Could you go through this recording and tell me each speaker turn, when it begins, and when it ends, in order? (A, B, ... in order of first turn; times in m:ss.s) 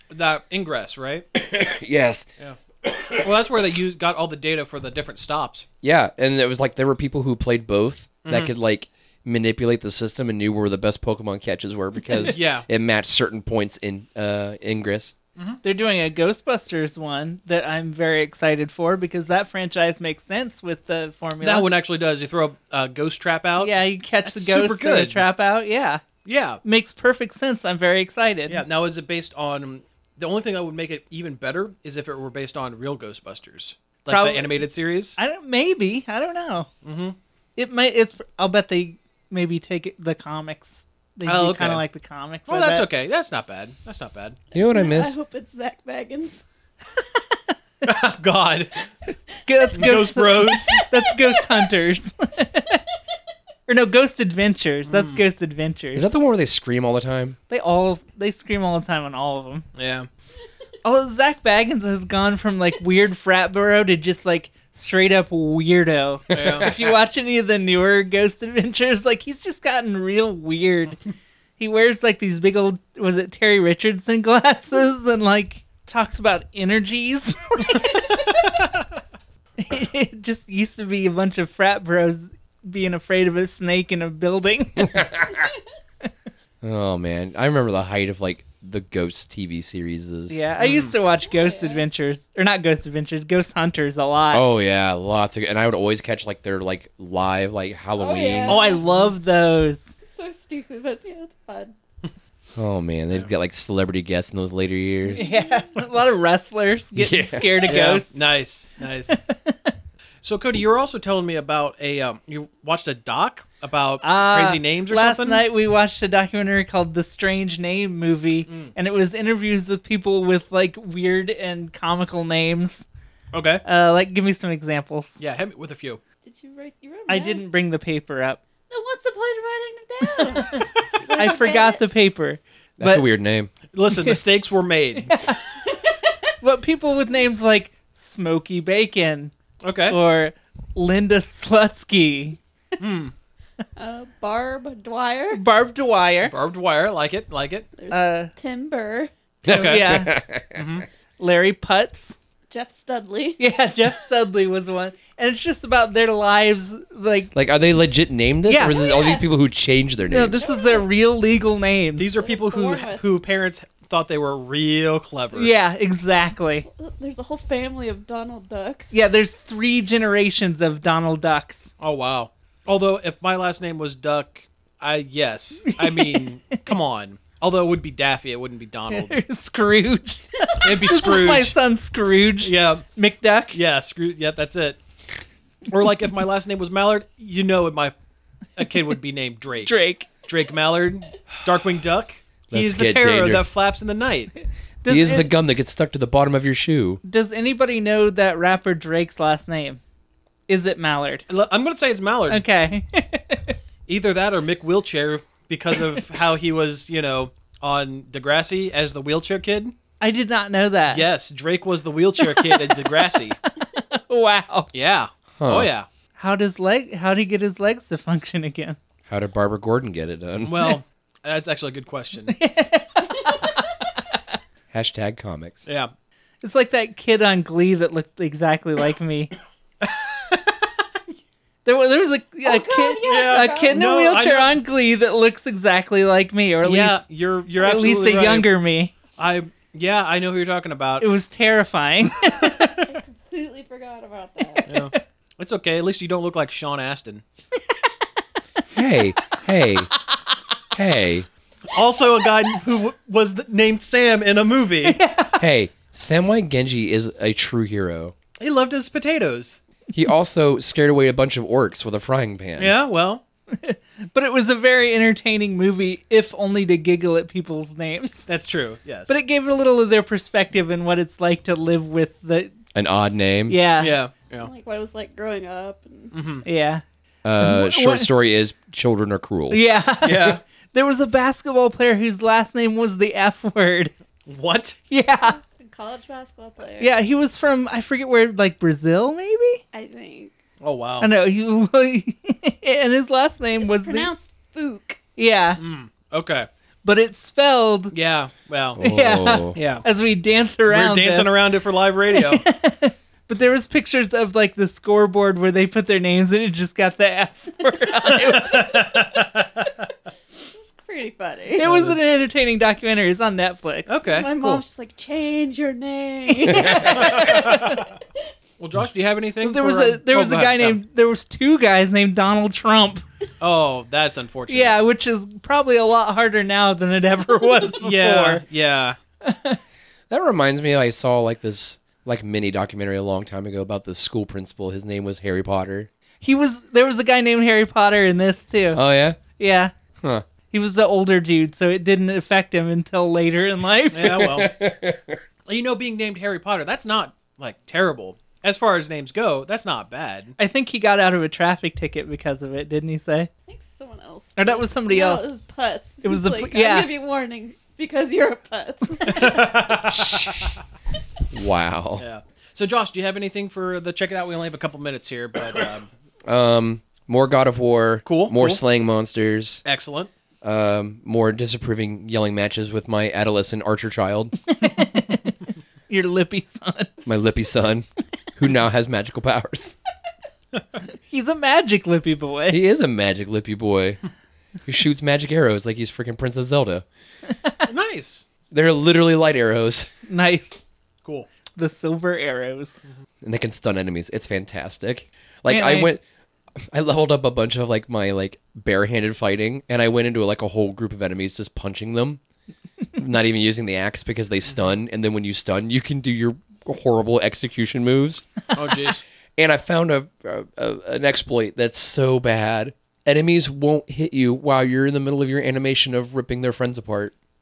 0:00.1-0:01.2 A
0:01.3-0:02.2 B
0:02.8-0:03.2 B
0:03.2-0:05.6 A
0:05.8-0:15.1 B
0:08.2-0:08.5 A
0:12.1-0:12.6 A
0:15.6-0:21.7 C
0:21.4-0:25.2 A
0:23.6-0:26.0 C
0:26.2-0:26.6 A
0:26.6-0:28.6 C
0:28.5-0:35.2 A
0:34.1-0:36.7 C
0:36.8-0:37.2 A
0:37.6-0:42.8 C
0:41.2-0:41.8 A
0:42.5-0:44.4 A
0:44.5-0:45.2 B
0:44.7-0:46.4 D
0:47.8-0:48.8 A
0:49.4-0:52.8 C
0:49.7-0:50.8 A
0:50.8-0:51.1 D
0:53.7-0:56.1 C
0:54.9-0:55.2 A
0:55.9-0:57.4 B
0:57.5-0:59.6 C
0:59.7-1:00.1 A
1:00.8-1:11.0 C
1:06.3-1:06.9 B
1:06.3-1:06.7 A
1:11.6-1:18.2 C
1:19.6-1:25.1 C
1:24.8-1:25.5 B
1:26.6-1:30.4 B
1:30.3-1:34.4 C
1:30.6-1:30.9 A
1:31.2-1:31.9 D
1:34.3-1:38.6 B
1:38.0-1:38.8 D
1:38.4-1:39.9 C
1:38.6-1:39.1 A
1:40.0-1:41.8 D
1:42.6-1:45.3 B
1:45.1-1:45.7 D
1:45.2-1:48.1 C
1:47.0-1:47.7 B
1:47.7-1:49.2 A
1:49.1-1:49.7 C
1:50.2-1:55.4 A
1:54.0-2:02.8 C
1:58.5-1:58.7 A
2:03.3-2:03.6 A
2:03.6-2:05.2 C
2:05.2-2:06.0 A
2:06.2-2:07.4 D
2:07.1-2:08.4 C
2:08.7-2:11.8 D
2:10.1-2:13.1 C
2:12.8-2:13.5 B
2:13.7-2:15.2 A
2:13.9-2:14.2 C
2:15.0-2:15.4 C
2:15.7-2:16.0 D
2:16.4-2:19.3 C
2:19.6-2:20.0 A
2:19.9-2:22.4 C
2:22.8-2:23.1 A
2:23.8-2:25.4 D
2:25.3-2:26.3 C
2:26.2-2:27.7 A
2:27.8-2:29.1 D
2:27.9-2:28.3 C
2:29.4-2:29.9 A
2:29.4-2:30.2 C
2:29.4-2:30.6 B
2:30.5-2:30.9 A
2:31.2-2:32.1 C
2:32.5-2:33.4 D
2:33.4-2:37.3 C
2:37.3-2:40.4 B
2:38.4-2:38.8 C
2:38.6-2:39.3 D
2:40.1-2:42.1 C
2:40.4-2:40.8 D
2:42.0-2:45.5 A
2:42.1-2:43.0 D
2:45.3-2:46.7 C
2:46.7-2:48.9 D
2:48.9-2:51.7 C
2:51.8-2:59.2 A
2:55.7-2:56.7 C
2:58.9-3:03.6 C
3:00.6-3:01.6 A
3:02.4-3:02.8 A
3:03.5-3:04.8 A
3:05.7-3:07.9 A
3:08.6-3:14.3 A
3:09.6-3:10.1 C
3:12.5-3:13.4 B
3:14.8-3:15.3 C
3:14.9-3:17.0 B
3:17.0-3:19.8 C
3:20.5-3:21.2 C
3:21.3-3:22.4 A
3:22.3-3:23.5 C
3:23.9-3:29.7 A
3:30.0-3:31.0 C
3:30.9-3:33.4 A
3:32.2-3:34.7 C
3:34.7-3:35.9 A
3:35.4-3:35.7 B
3:36.2-3:38.8 C
3:39.1-3:40.7 B
3:40.4-3:42.4 A
3:42.3-3:43.6 C
3:44.7-3:45.6 B
3:45.6-3:45.9 A
3:46.4-3:49.3 C
3:49.8-3:50.5 A
3:51.6-3:57.0 C
3:52.4-3:53.8 D
3:53.0-3:54.6 A
3:56.6-3:58.5 A
3:57.6-3:58.9 C
3:59.2-4:01.1 A
4:01.0-4:02.8 C
4:02.9-4:04.7 D
4:04.5-4:05.0 C
4:04.7-4:07.2 A
4:08.7-4:09.9 B
4:10.7-4:11.3 B
4:11.7-4:15.0 A
4:14.8-4:15.4 C
4:15.4-4:18.1 B
4:18.4-4:19.6 A
4:19.9-4:22.7 B
4:22.6-4:23.2 A
4:23.5-4:28.3 C
4:28.3-4:29.2 A
4:29.1-4:32.5 C
4:32.7-4:33.6 B
4:33.5-4:34.0 C
4:33.8-4:34.5 A
4:34.4-4:36.2 D
4:36.1-4:36.4 A
4:36.4-4:36.8 C
4:37.2-4:39.6 B
4:37.4-4:38.1 C
4:39.5-4:43.9 C
4:40.0-4:40.4 A
4:44.3-4:44.8 A
4:44.9-4:45.4 C
4:45.4-4:46.9 D
4:46.8-4:49.6 C
4:49.7-4:50.3 D
4:50.6-4:51.1 A
4:51.0-4:54.1 C
4:53.6-4:55.0 D
4:55.2-4:55.6 C
4:55.6-4:56.5 A
4:56.8-4:57.9 C
4:57.9-4:58.8 A
4:58.8-4:59.6 B
4:58.8-5:01.4 C
4:59.5-4:59.8 A
5:00.7-5:02.4 A
5:02.1-5:09.0 C
5:08.1-5:09.6 A
5:10.5-5:11.6 D
5:11.6-5:13.9 C
5:11.6-5:12.1 A
5:13.9-5:14.6 A
5:14.0-5:17.8 D
5:16.3-5:17.8 C
5:16.8-5:17.8 A
5:18.6-5:20.8 A
5:19.4-5:23.0 C
5:23.4-5:24.8 A
5:24.5-5:28.4 C
5:27.7-5:29.0 A
5:29.2-5:29.6 C
5:30.1-5:35.9 B
5:36.2-5:38.8 C
5:38.7-5:39.2 B
5:39.4-5:39.7 C
5:40.5-5:44.4 C
5:43.9-5:44.5 A
5:44.2-5:45.2 B
5:45.4-5:50.3 A
5:50.4-5:53.3 C
5:53.4-6:00.2 D
5:54.4-5:55.2 C
5:56.0-5:56.9 C
5:59.0-6:00.4 A
6:01.3-6:02.0 B
6:02.0-6:05.9 A
6:06.3-6:09.6 B
6:08.0-6:08.6 A
6:09.6-6:10.1 A
6:10.4-6:14.4 B
6:14.5-6:15.4 C
6:15.9-6:17.0 C
6:17.0-6:19.8 B
6:21.1-6:22.6 C
6:22.5-6:24.0 B
6:24.6-6:26.8 B
6:27.6-6:28.2 A
6:28.5-6:29.9 B
6:30.1-6:30.6 C
6:31.6-6:32.8 C
6:33.2-6:36.0 B
6:35.5-6:35.9 C
6:36.7-6:42.2 B
6:43.0-6:48.2 B
6:48.5-6:49.0 A
6:49.4-6:57.1 B